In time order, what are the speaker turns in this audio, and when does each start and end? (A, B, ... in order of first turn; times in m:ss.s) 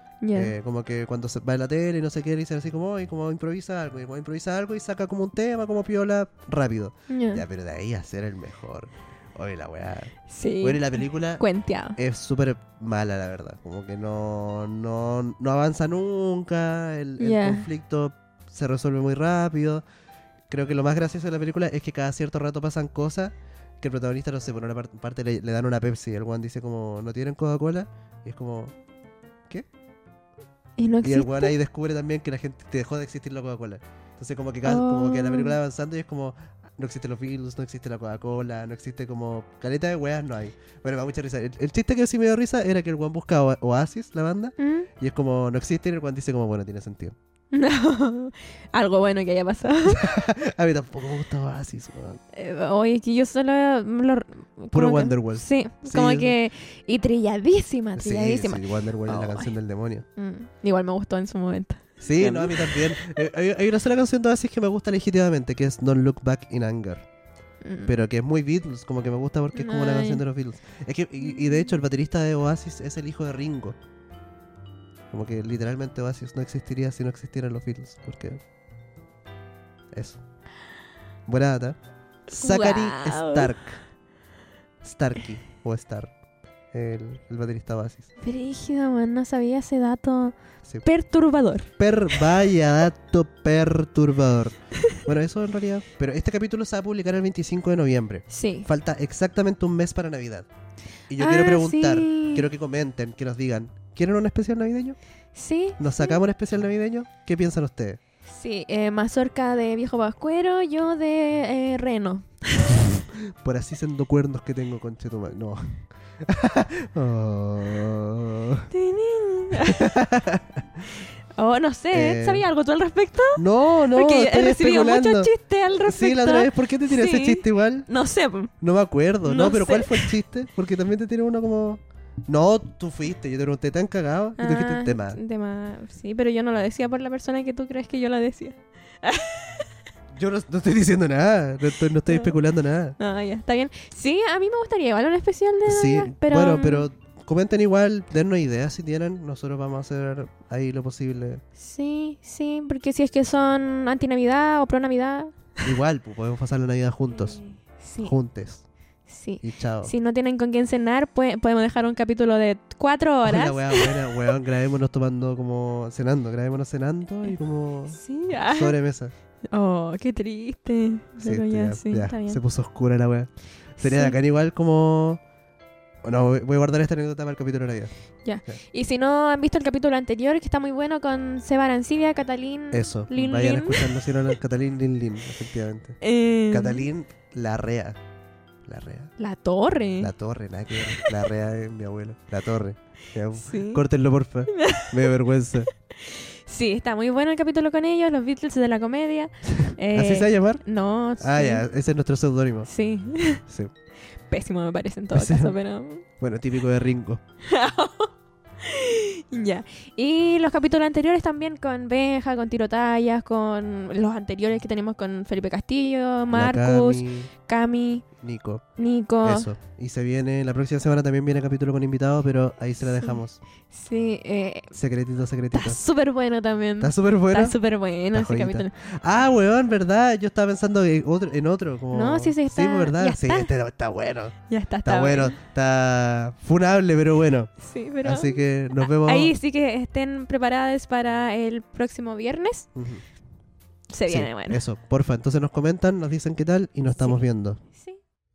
0:00.2-0:00.5 A
0:00.3-0:11.4 B
0:07.1-0:07.4 A
0:10.3-0:12.0 A
0:12.0-0:19.8 B
0:17.2-0:17.7 A
0:20.5-0:28.7 B
0:30.8-0:31.5 A
0:31.0-0:47.2 B
0:34.6-0:35.6 A
0:44.6-0:44.9 A
0:47.5-0:50.1 A
0:49.9-0:52.2 B
0:52.3-0:59.5 A
0:54.7-0:56.4 B
0:58.0-1:00.0 B
1:00.2-1:03.3 A
1:02.0-1:07.0 B
1:07.6-1:07.9 A
1:07.8-1:13.8 B
1:09.5-1:10.2 A
1:11.3-1:11.7 A
1:15.1-1:18.4 B
1:19.9-1:20.2 B
1:21.3-1:21.8 B
1:22.3-1:23.5 A
1:22.3-1:23.8 B
1:24.8-1:26.1 B
1:26.7-1:28.1 B
1:28.2-1:32.2 A
1:31.8-1:40.5 B
1:38.3-1:38.7 A
1:41.1-1:45.0 B
1:41.2-1:42.5 A
1:45.3-1:46.2 A
1:45.8-1:48.0 B
1:48.2-1:52.9 A
1:52.8-1:58.7 B
1:58.7-1:59.9 A
1:59.5-2:00.6 B
2:01.4-2:08.5 A
2:01.9-2:02.4 B
2:03.4-2:05.3 B
2:05.8-2:07.9 B
2:08.6-2:15.2 B
2:09.2-2:10.1 A
2:14.4-2:19.7 A
2:20.2-2:23.0 B
2:22.1-2:22.4 A
2:23.0-2:26.9 A
2:25.7-2:31.4 B
2:31.6-2:35.3 A
2:35.6-2:37.4 B
2:37.1-2:38.2 A
2:38.0-2:38.6 B
2:39.1-2:44.3 A
2:39.4-2:39.9 B
2:43.2-2:49.1 B
2:47.9-2:48.8 A
2:49.5-2:52.4 A
2:51.2-2:55.2 B
2:53.8-2:54.2 A
2:56.0-2:57.9 B
2:58.2-3:03.9 A
3:02.7-3:08.0 B
3:06.0-3:06.9 A
3:08.7-3:09.1 B
3:09.2-3:10.1 A
3:10.0-3:15.7 B
3:13.4-3:13.8 A
3:14.5-3:15.1 A
3:15.9-3:21.6 A
3:19.5-3:20.6 B
3:21.2-3:22.7 B
3:22.7-3:23.4 A
3:23.5-3:23.7 B
3:24.3-3:26.1 A
3:25.1-3:25.5 B
3:26.2-3:27.2 B
3:27.4-3:38.1 A
3:36.3-3:37.3 B
3:38.2-3:38.6 B
3:38.8-3:39.5 A
3:39.2-3:43.4 B
3:43.7-3:44.7 A
3:44.7-3:45.8 B
3:45.5-3:48.7 A
3:46.8-3:47.6 B
3:48.1-3:59.3 B
3:51.9-3:53.5 A
3:54.5-3:55.4 A
3:57.6-4:02.7 A
4:02.8-4:03.0 B
4:03.9-4:04.6 A
4:04.1-4:07.6 B
4:07.7-4:08.0 A